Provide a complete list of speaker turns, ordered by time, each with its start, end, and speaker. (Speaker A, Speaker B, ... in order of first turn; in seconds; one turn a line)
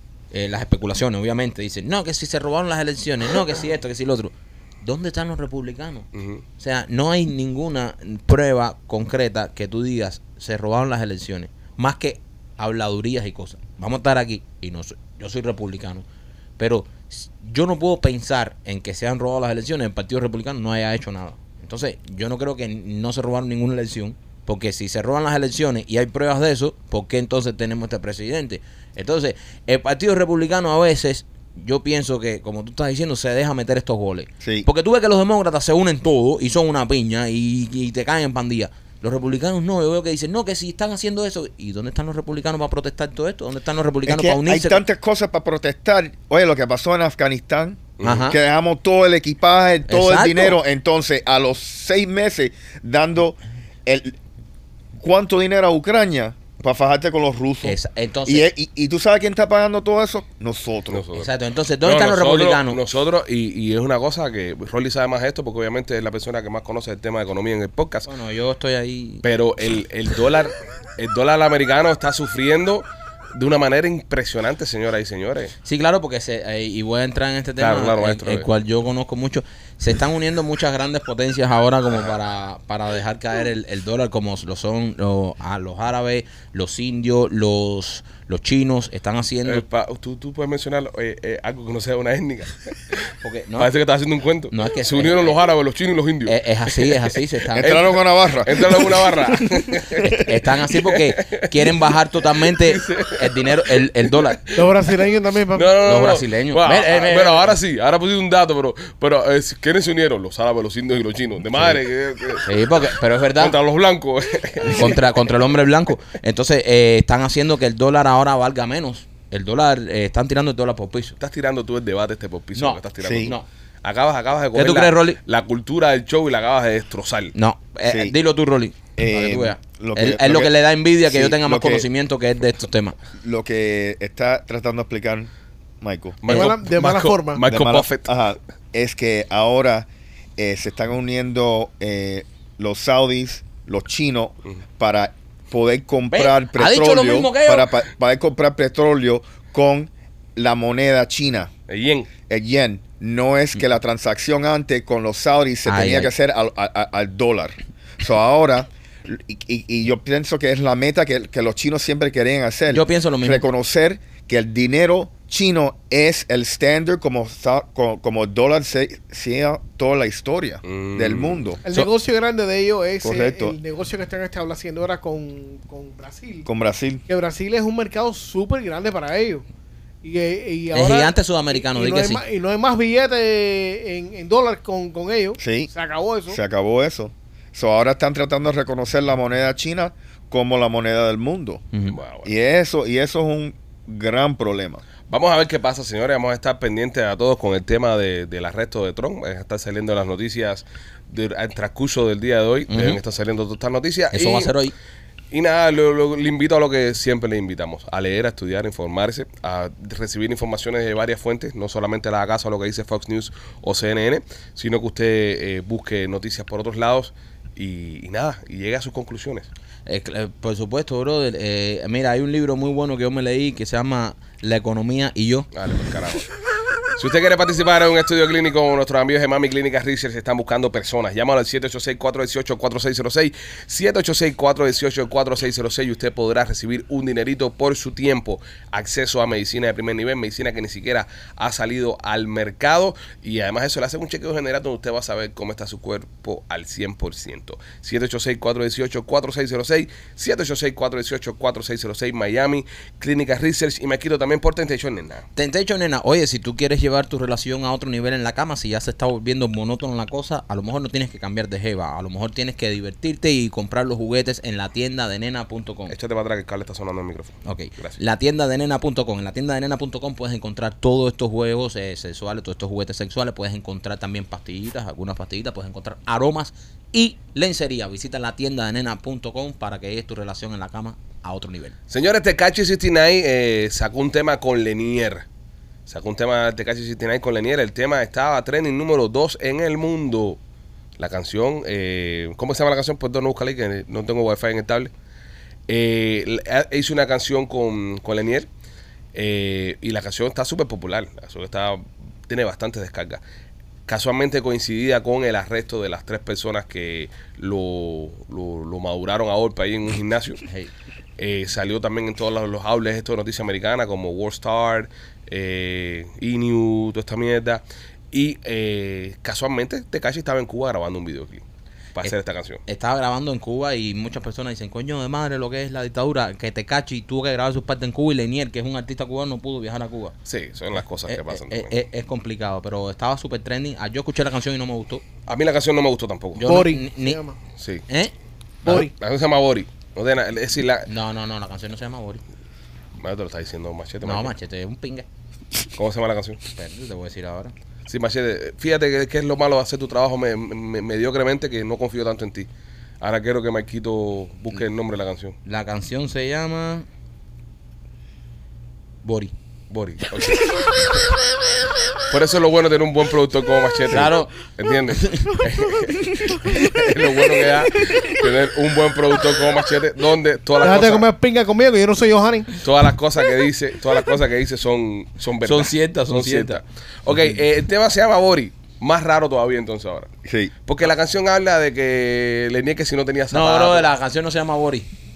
Speaker A: 0.3-6.1
Speaker B: 6.1-6.4
Speaker A: 6.6-16.0
Speaker A: 16.6-44.8
Speaker C: 34.4-34.7
Speaker C: 44.0-54.1
Speaker B: 48.0-48.3
Speaker A: 48.0-48.4
Speaker A: 49.9-50.6
Speaker C: 55.0-61.0
Speaker A: 57.6-58.5
Speaker B: 60.9-61.3
Speaker A: 61.1-62.8
Speaker B: 61.8-68.1
Speaker A: 68.0-69.2
Speaker B: 69.2-75.5
Speaker A: 75.6-89.6
Speaker B: 77.6-78.5
Speaker B: 89.5-93.0
Speaker A: 93.2-93.7
Speaker B: 93.6-97.0
Speaker A: 94.5-95.3
Speaker A: 96.2-97.8
Speaker C: 97.5-100.2
Speaker B: 97.6-100.2
Speaker A: 100.0-104.4
Speaker B: 100.7-101.8
Speaker B: 102.4-104.7
Speaker D: 104.5-105.7
Speaker B: 105.5-115.1
Speaker A: 105.8-107.5
Speaker A: 112.4-113.5
Speaker A: 114.6-121.2
Speaker B: 121.2-127.3
Speaker A: 122.5-123.4
Speaker C: 123.0-123.3
Speaker A: 124.5-125.2
Speaker A: 127.3-132.9
Speaker C: 127.8-128.2
Speaker C: 128.9-131.9
Speaker C: 133.2-135.3
Speaker C: 135.8-136.3
Speaker B: 136.2-138.1
Speaker D: 136.3-137.4
Speaker C: 137.4-151.5
Speaker A: 146.1-147.7
Speaker B: 151.7-152.1
Speaker C: 152.3-171.6
Speaker A: 155.7-156.1
Speaker A: 162.7-163.4
Speaker B: 170.6-171.4
Speaker D: 171.6-176.5
Speaker C: 173.0-173.6
Speaker C: 176.4-177.0
Speaker D: 177.1-179.4
Speaker D: 180.0-186.4
Speaker A: 180.7-182.2
Speaker C: 185.4-185.7
Speaker C: 186.3-191.6
Speaker B: 191.9-192.3
Speaker C: 192.2-194.8
Speaker B: 195.1-204.5
Speaker A: 202.7-203.0
Speaker A: 204.1-204.7
Speaker B: 205.3-219.5
Speaker A: 219.8-225.5
Speaker B: 225.5-226.3
Speaker B: 226.9-255.2
Speaker A: 255.3-265.9
Speaker B: 265.9-268.0
Speaker A: 267.4-281.7
Speaker B: 281.9-285.2
Speaker B: 285.9-290.4
Speaker B: 291.0-294.9
Speaker B: 295.7-298.5
Speaker B: 299.1-303.2
Speaker B: 303.9-310.4
Speaker B: 311.2-321.4
Speaker B: 321.9-322.6
Speaker A: 322.7-330.1
Speaker B: 330.2-331.7
Speaker A: 331.1-335.0
Speaker B: 335.3-336.5
Speaker A: 336.4-337.2
Speaker D: 336.4-337.4
Speaker B: 337.6-337.8
Speaker D: 338.6-338.9
Speaker B: 338.6-340.9
Speaker A: 340.9-342.2
Speaker B: 343.0-344.3
Speaker A: 344.0-345.1
Speaker B: 345.8-346.4
Speaker A: 346.5-347.5
Speaker B: 347.9-352.5
Speaker B: 353.0-355.4
Speaker A: 355.4-356.9
Speaker A: 359.0-359.3
Speaker B: 359.7-360.8
Speaker B: 362.1-371.1
Speaker A: 363.9-364.3
Speaker A: 364.9-365.4
Speaker D: 370.6-372.5
Speaker B: 372.6-380.1
Speaker A: 375.4-376.6
Speaker C: 380.2-380.5
Speaker B: 380.7-383.9
Speaker A: 383.3-384.9